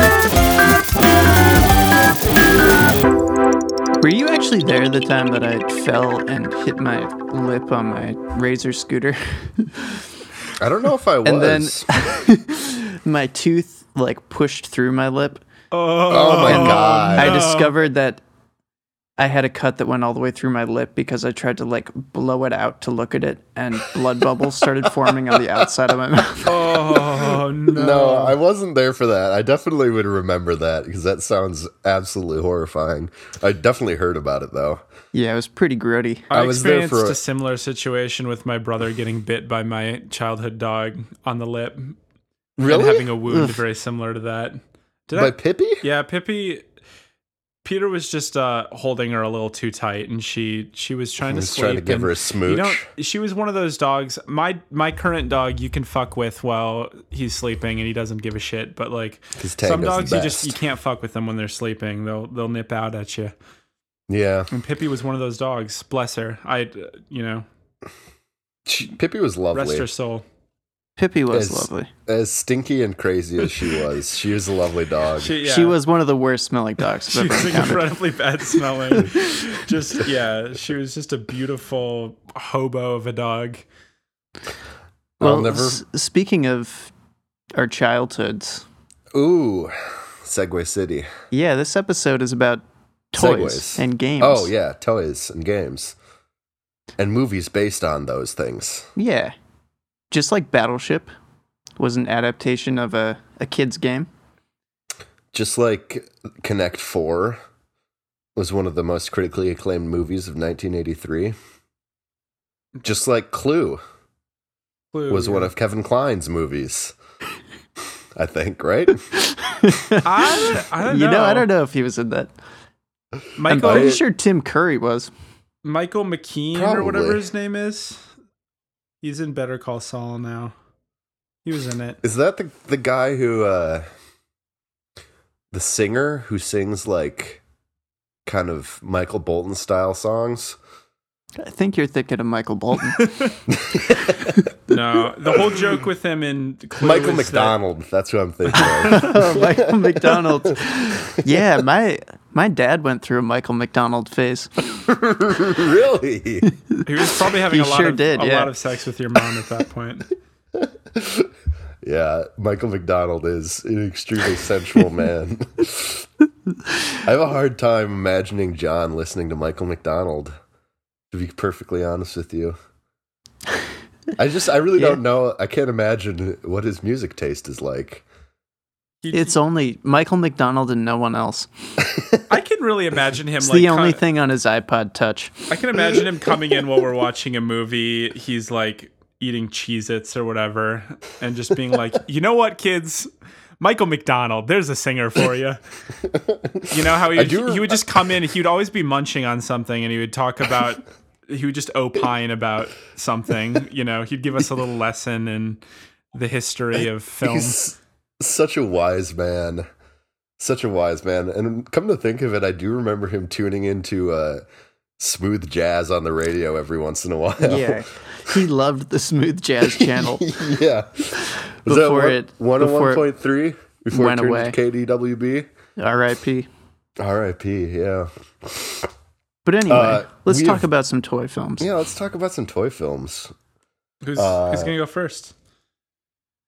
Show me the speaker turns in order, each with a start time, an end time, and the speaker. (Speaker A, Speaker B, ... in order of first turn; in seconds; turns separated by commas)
Speaker A: 4.0-10.0, Speaker B: 10.6-11.9, Speaker A: 11.2-15.4, Speaker C: 15.7-17.7, Speaker B: 16.1-17.4, Speaker A: 16.4-18.2, Speaker A: 19.2-26.8, Speaker B: 24.8-25.6, Speaker C: 26.4-28.4, Speaker B: 26.9-34.8, Speaker A: 35.1-36.3, Speaker B: 36.3-37.2, Speaker C: 36.3-42.0, Speaker B: 42.6-43.2, Speaker C: 42.7-46.6, Speaker B: 45.2-45.9, Speaker C: 47.6-63.3, Speaker B: 51.3-52.9, Speaker B: 59.4-60.6, Speaker B: 64.1-64.5, Speaker C: 64.5-67.5, Speaker B: 68.7-69.9, Speaker C: 69.5-70.2, Speaker A: 71.0-71.9, Speaker B: 71.3-75.3, Speaker C: 75.1-75.8, Speaker A: 75.4-77.9, Speaker C: 77.1-83.6, Speaker B: 85.2-85.8, Speaker A: 85.2-86.9, Speaker A: 87.6-88.7, Speaker B: 89.1-91.1, Speaker A: 91.3-94.5, Speaker B: 93.2-96.0, Speaker B: 97.0-98.9, Speaker A: 99.0-99.3, Speaker A: 100.1-101.1, Speaker A: 101.8-104.1, Speaker B: 105.3-107.4, Speaker B: 108.4-111.4, Speaker B: 112.8-113.8, Speaker C: 114.9-115.5, Speaker B: 115.1-117.0, Speaker B: 118.2-119.0, Speaker A: 119.2-122.3, Speaker C: 120.0-121.5, Speaker C: 123.4-124.0, Speaker A: 123.5-125.1, Speaker B: 123.6-124.0, Speaker C: 125.6-128.1, Speaker B: 126.5-127.2, Speaker C: 129.0-130.5, Speaker C: 131.4-132.0, Speaker B: 132.0-133.8, Speaker B: 135.5-137.4, Speaker B: 138.3-140.6, Speaker A: 141.4-143.3, Speaker C: 143.0-143.3, Speaker B: 143.5-144.3, Speaker A: 144.0-144.5, Speaker C: 144.7-147.6, Speaker B: 146.8-150.5, Speaker C: 148.6-149.1, Speaker A: 148.6-154.7, Speaker B: 154.8-156.5, Speaker C: 156.8-160.1, Speaker A: 157.5-158.5, Speaker B: 160.6-161.3, Speaker B: 161.8-166.1, Speaker B: 167.0-170.3, Speaker B: 171.1-172.6, Speaker B: 174.2-178.1, Speaker C: 179.0-179.4, Speaker A: 179.1-181.5, Speaker B: 181.9-182.2, Speaker C: 182.3-184.0, Speaker A: 183.4-185.4, Speaker C: 185.5-193.1, Speaker C: 193.6-195.6, Speaker B: 196.1-198.1, Speaker C: 196.7-205.6, Speaker C: 206.1-207.6, Speaker B: 206.8-209.7, Speaker B: 210.4-214.4, Speaker B: 215.0-218.4, Speaker A: 217.4-220.4, Speaker B: 219.6-225.5, Speaker A: 221.2-223.1, Speaker A: 223.9-224.6, Speaker A: 225.8-226.5, Speaker B: 227.0-228.9, Speaker A: 229.4-231.7, Speaker B: 229.7-230.6, Speaker B: 231.6-233.3, Speaker C: 234.0-235.3, Speaker B: 234.2-234.7